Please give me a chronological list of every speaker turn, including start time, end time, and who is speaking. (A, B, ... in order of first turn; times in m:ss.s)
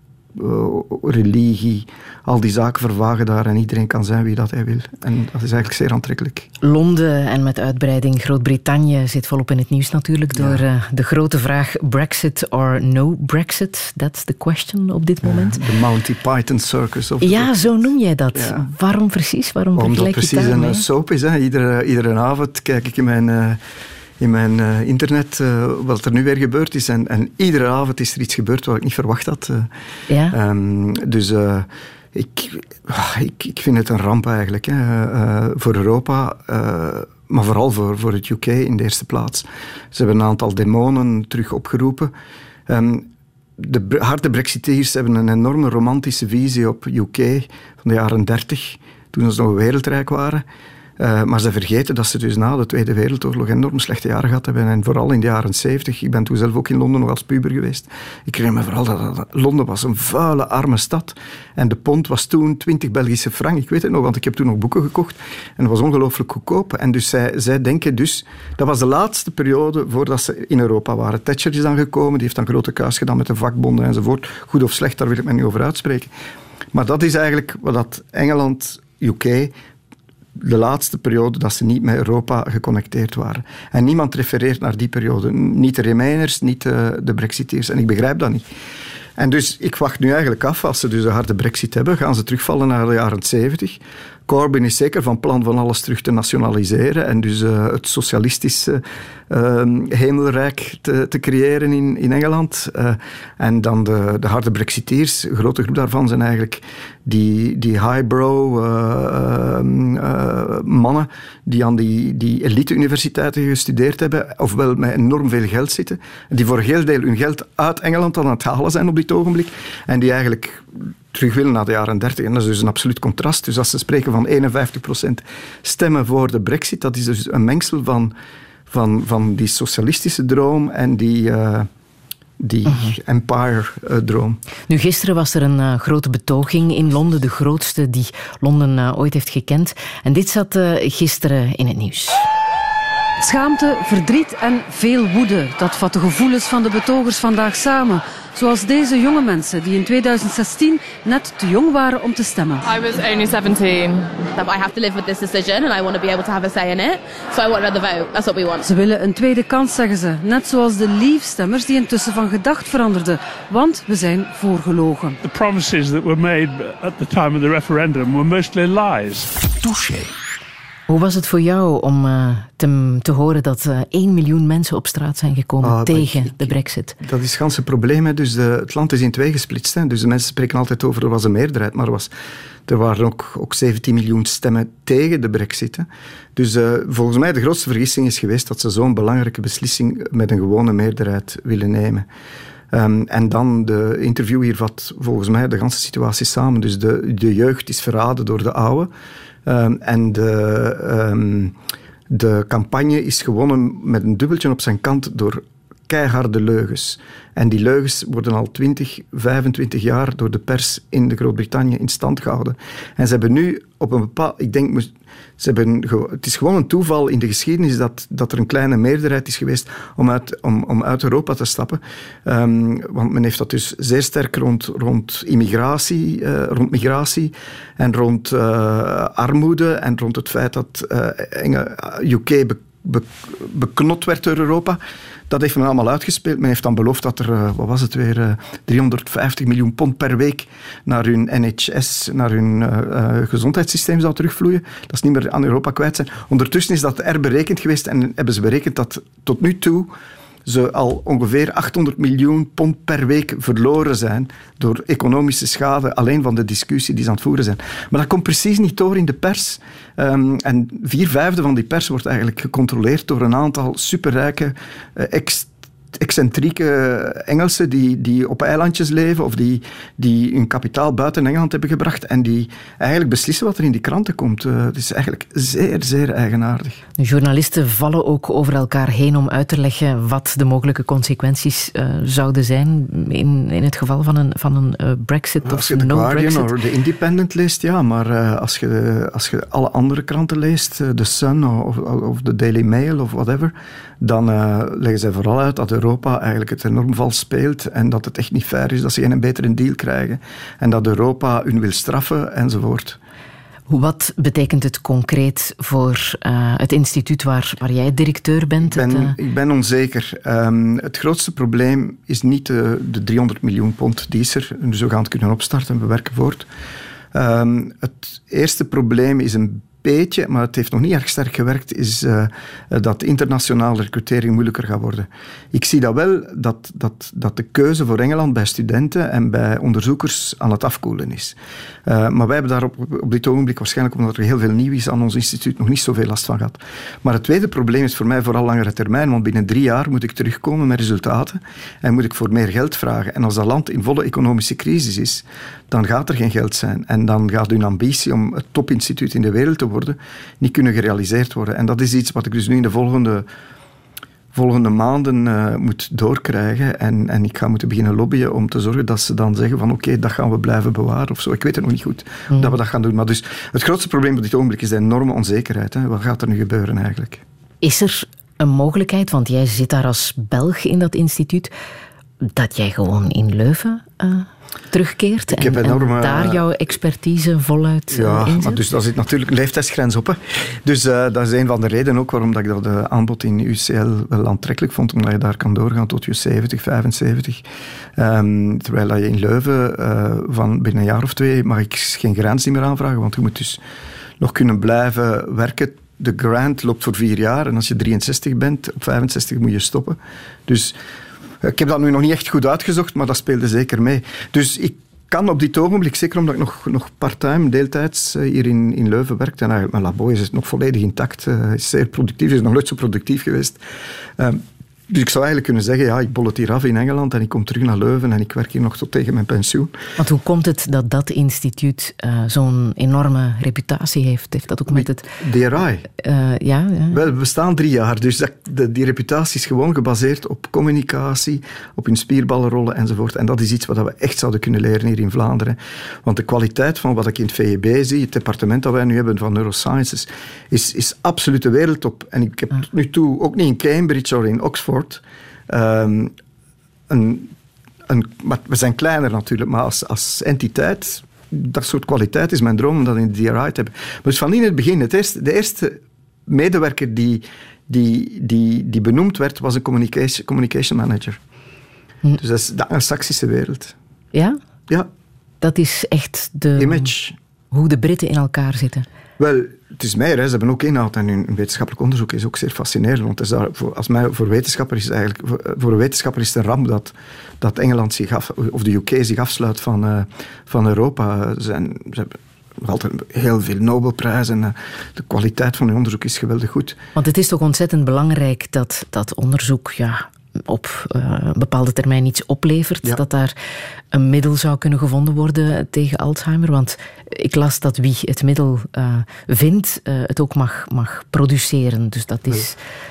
0:00.3-0:06.5 A
0:06.6-0:15.6 B
0:10.3-0:10.6 A
0:15.2-0:18.7 A
0:17.2-0:20.8 B
0:19.7-0:23.6 A
0:24.2-0:29.7 A
0:30.1-0:30.4 B
0:30.3-0:42.1 A
0:42.7-0:50.4 A
0:51.0-1:16.1 A
1:16.7-1:19.5 A
1:20.4-1:28.4 A
1:29.2-2:08.1 A
2:08.7-2:11.7 A
2:12.4-2:14.4 A
2:12.6-2:12.9 B
2:14.7-2:22.2 B
2:23.2-2:32.6 C
2:32.6-2:38.7 D
2:38.6-2:45.2 C
2:45.2-2:49.3 E
2:50.9-2:57.0 B
2:55.6-3:02.1 A
3:02.7-3:12.1 A
3:12.7-3:18.9 A
3:19.4-3:21.5 A
3:22.1-4:09.9 A
4:10.4-4:36.8 A
4:37.0-4:46.5 B
4:45.4-5:03.0 A
5:03.7-5:09.2 B
5:08.6-5:16.5 A
5:17.1-5:53.2 A
5:54.3-6:07.2 A
6:07.6-6:11.5 B
6:12.2-6:18.6 B
6:15.3-6:16.4 A
6:17.9-6:27.4 A
6:28.0-6:33.6 A
6:34.2-6:40.8 A
6:41.4-6:53.6 A
6:54.2-6:59.7 A
7:00.0-7:05.0 B
7:04.7-7:05.9 A
7:06.0-7:07.0 B
7:06.9-7:26.1 A
7:26.9-7:27.3 A
7:27.9-7:41.2 A
7:42.2-7:43.7 A
7:45.4-7:46.9 B
7:46.6-7:47.2 A
7:47.5-7:48.8 B
7:49.2-8:06.8 A
8:06.9-8:13.3 B
8:13.9-8:22.6 B